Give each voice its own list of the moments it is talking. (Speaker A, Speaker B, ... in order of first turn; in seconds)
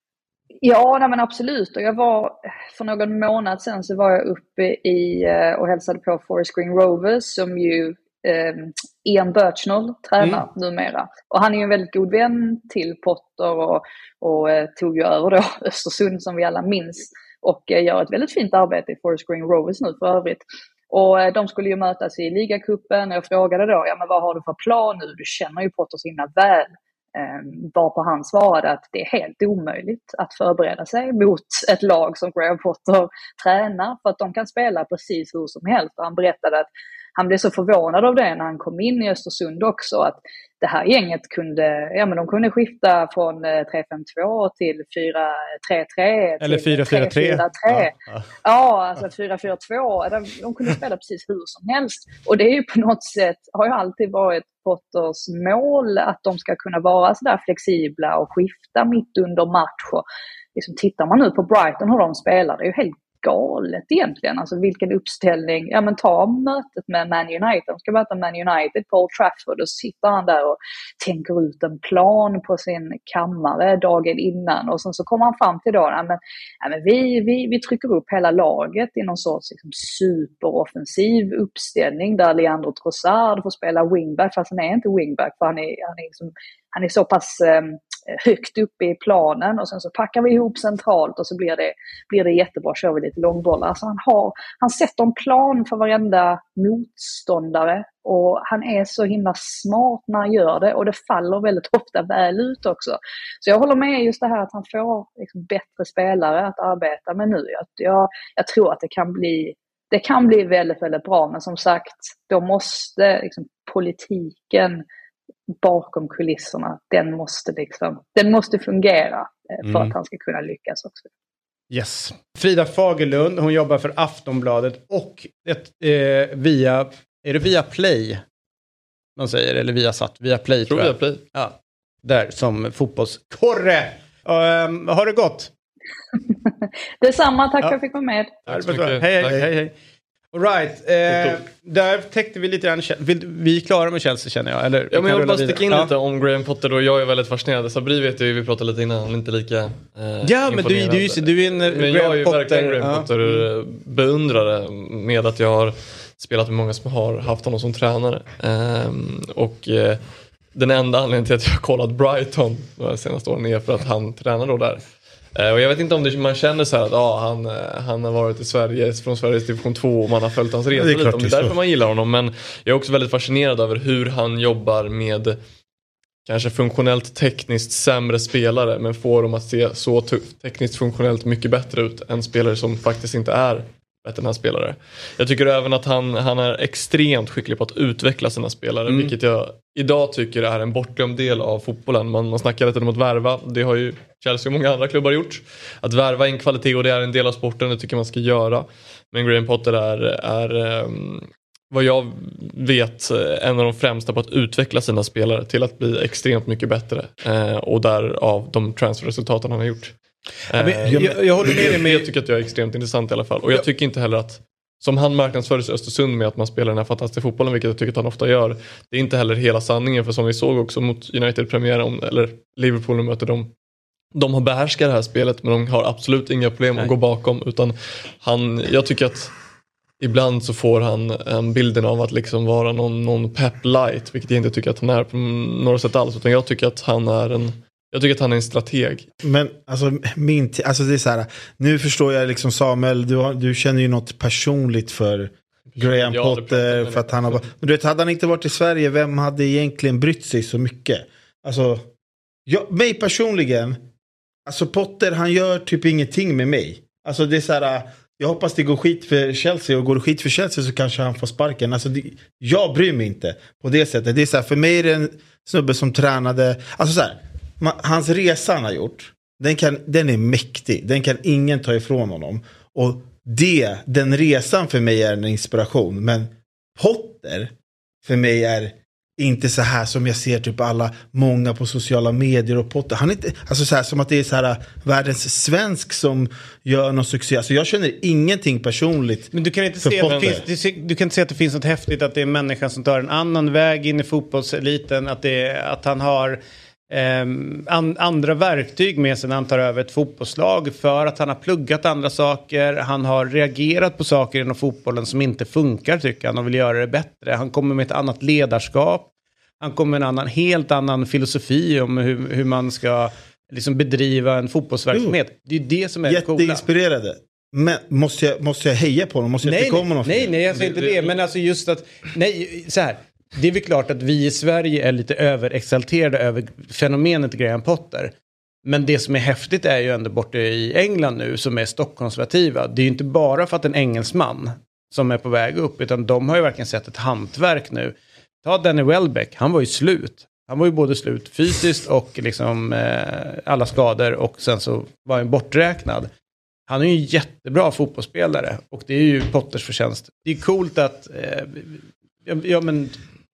Speaker A: 0.6-60.0, 60.5-114.8, 115.6-121.1, 137.0-138.4
Speaker B: 46.4-48.2, 119.6-119.9, 121.7-128.2, 129.2-135.5, 138.5-139.7, 140.3-145.9, 150.2-153.4, 210.5-212.1, 289.3-296.4, 296.9-309.1, 309.6-316.6, 319.4-328.1, 328.6-346.1, 346.7-353.0
Speaker C: 130.7-131.2, 138.5-139.4, 144.9-160.0, 160.5-164.8, 165.3-175.4, 176.2-209.9, 210.5-223.5, 224.1-229.3, 230.0-239.1, 245.8-247.5, 290.1-290.3, 320.6-321.1
Speaker D: 170.7-171.6, 210.8-211.7, 239.2-251.9, 252.4-253.8, 254.4-277.5, 278.0-290.4, 314.9-315.2, 316.1-320.3